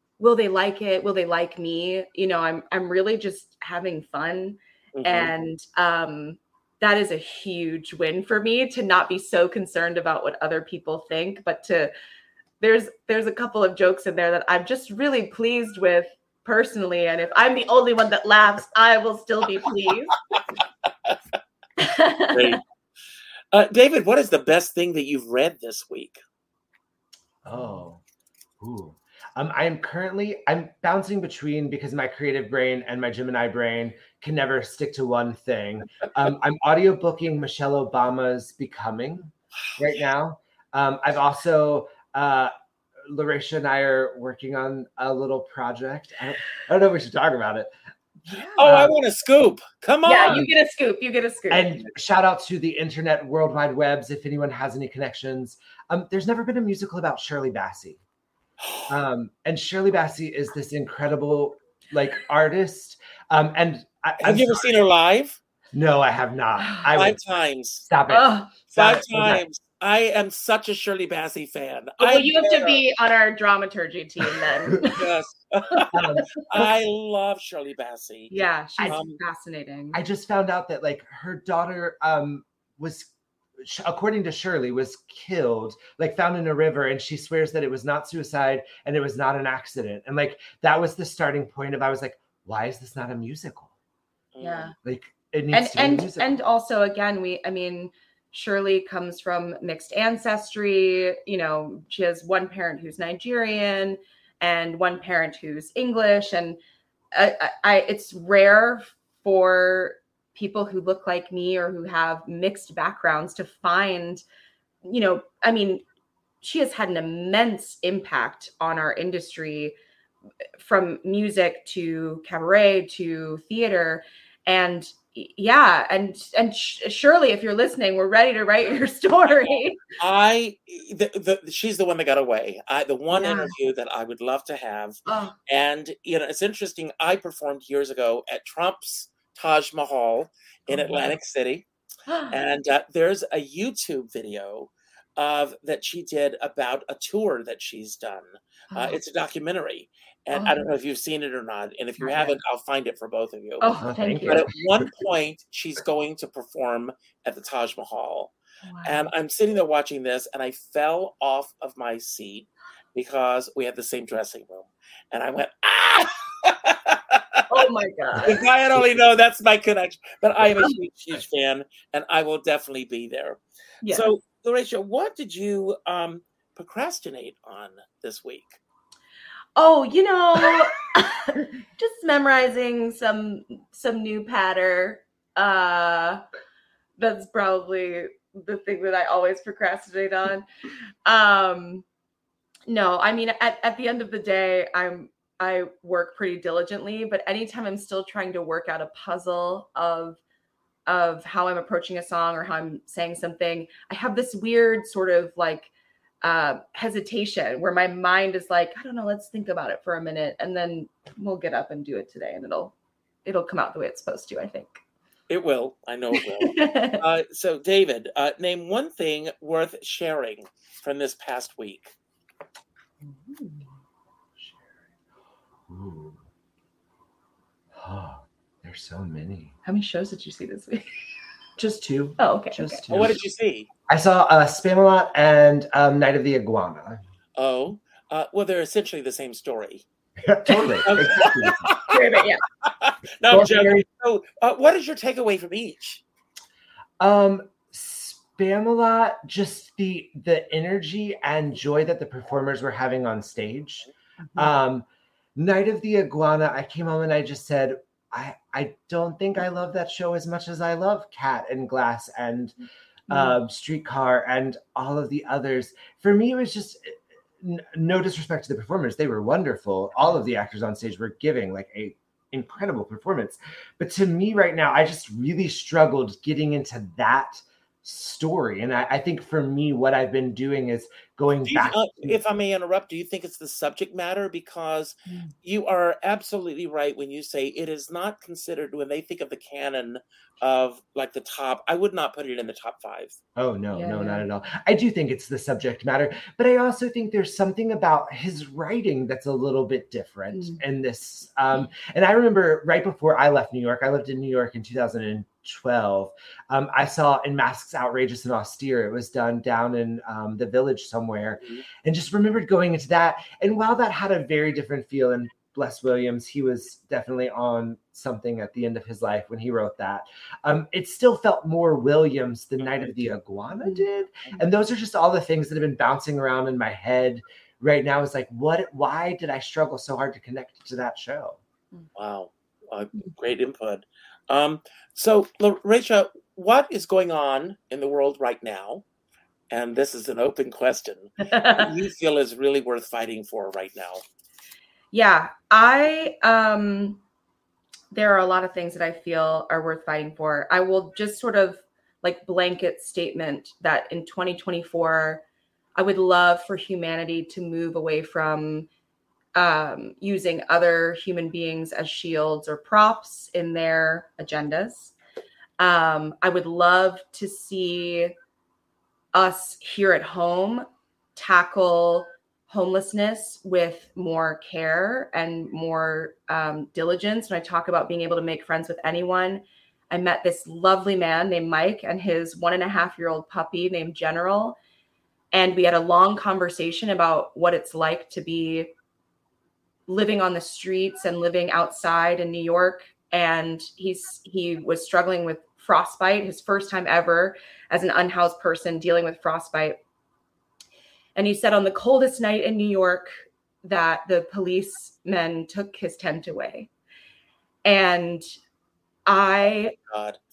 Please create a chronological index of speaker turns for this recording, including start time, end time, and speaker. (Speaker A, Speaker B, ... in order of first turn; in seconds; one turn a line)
Speaker A: 0.2-11.9
Speaker B: 4.9-5.3
Speaker A: 12.6-20.1
Speaker B: 20.3-21.2
Speaker A: 21.8-22.6
Speaker B: 22.3-22.6
Speaker B: 23.5-26.2
Speaker C: 27.4-28.0
Speaker C: 28.6-42.5
Speaker C: 43.0-47.7
Speaker A: 48.3-48.6
Speaker C: 48.6-48.9
Speaker B: 48.6-50.5
Speaker A: 50.0-51.9
Speaker C: 51.5-58.0
Speaker B: 58.6-58.9
Speaker C: 58.9-64.7
Speaker B: 64.2-65.4
Speaker C: 65.7-67.2
Speaker A: 66.6-66.8
Speaker B: 66.9-67.8
Speaker C: 67.8-69.4
Speaker A: 68.1-68.5
Speaker B: 68.7-72.8
Speaker A: 72.0-75.0
Speaker B: 74.8-79.2
Speaker A: 75.7-76.2
Speaker C: 75.9-76.7
Speaker A: 78.3-80.0
Speaker C: 79.9-93.7
Speaker B: 94.3-94.7
Speaker A: 94.4-94.7
Speaker C: 94.8-96.3
Speaker A: 95.5-106.6
Speaker A: 107.1-114.2
Speaker A: 114.8-115.8
Speaker A: 116.4-119.7
Speaker A: 120.6-129.8
Speaker B: 130.0-141.7
Speaker A: 133.1-133.6
Speaker A: 135.1-135.3
Speaker A: 140.7-141.1
Speaker A: 142.1-142.3
Speaker B: 142.3-153.7
Speaker A: 148.7-149.0
Speaker A: 150.3-150.7
Speaker A: 152.0-152.4
Speaker A: 153.6-154.5
Speaker C: 153.8-154.6
Speaker B: 154.3-167.4
Speaker A: 158.6-159.1
Speaker A: 167.5-168.4
Speaker B: 168.2-178.6
Speaker A: 173.8-174.1
Speaker A: 179.6-186.2
Speaker A: 187.0-190.5
Speaker A: 191.1-191.8
Speaker A: 192.7-200.2
Speaker A: 200.9-205.7
Speaker A: 206.2-212.7
Speaker A: 213.2-214.8
Speaker B: 215.3-221.9
Speaker A: 216.1-217.0
Speaker A: 223.0-223.8
Speaker C: 224.4-224.7
Speaker C: 225.7-226.2
Speaker C: 227.7-229.5
Speaker A: 229.6-230.8
Speaker C: 231.6-233.2
Speaker A: 232.2-232.8
Speaker B: 232.9-233.7
Speaker C: 233.9-237.0
Speaker B: 237.4-239.8
Speaker C: 240.2-241.8
Speaker A: 240.5-242.4
Speaker B: 240.8-242.0
Speaker B: 242.6-246.0
Speaker C: 243.3-243.8
Speaker C: 247.0-254.8
Speaker A: 254.2-254.5
Speaker C: 255.3-262.6
Speaker C: 263.1-282.1
Speaker A: 263.1-263.4
Speaker B: 281.4-293.1
Speaker A: 285.1-285.3
Speaker C: 293.4-331.4
Speaker A: 293.7-294.2
Speaker A: 300.3-300.6
Speaker B: 322.6-323.1
Speaker A: 323.6-324.4
Speaker B: 331.9-338.8
Speaker B: 339.5-344.0
Speaker A: 341.2-341.7
Speaker A: 344.9-347.0
Speaker A: 347.9-355.2
Speaker A: 355.8-358.7
Speaker A: 359.3-364.9
Speaker A: 365.6-368.1
Speaker A: 369.1-384.6
Speaker A: 385.3-388.7
Speaker A: 389.9-399.8
Speaker A: 401.1-406.7
Speaker A: 407.6-408.3
Speaker A: 409.1-409.7
Speaker B: 409.9-410.2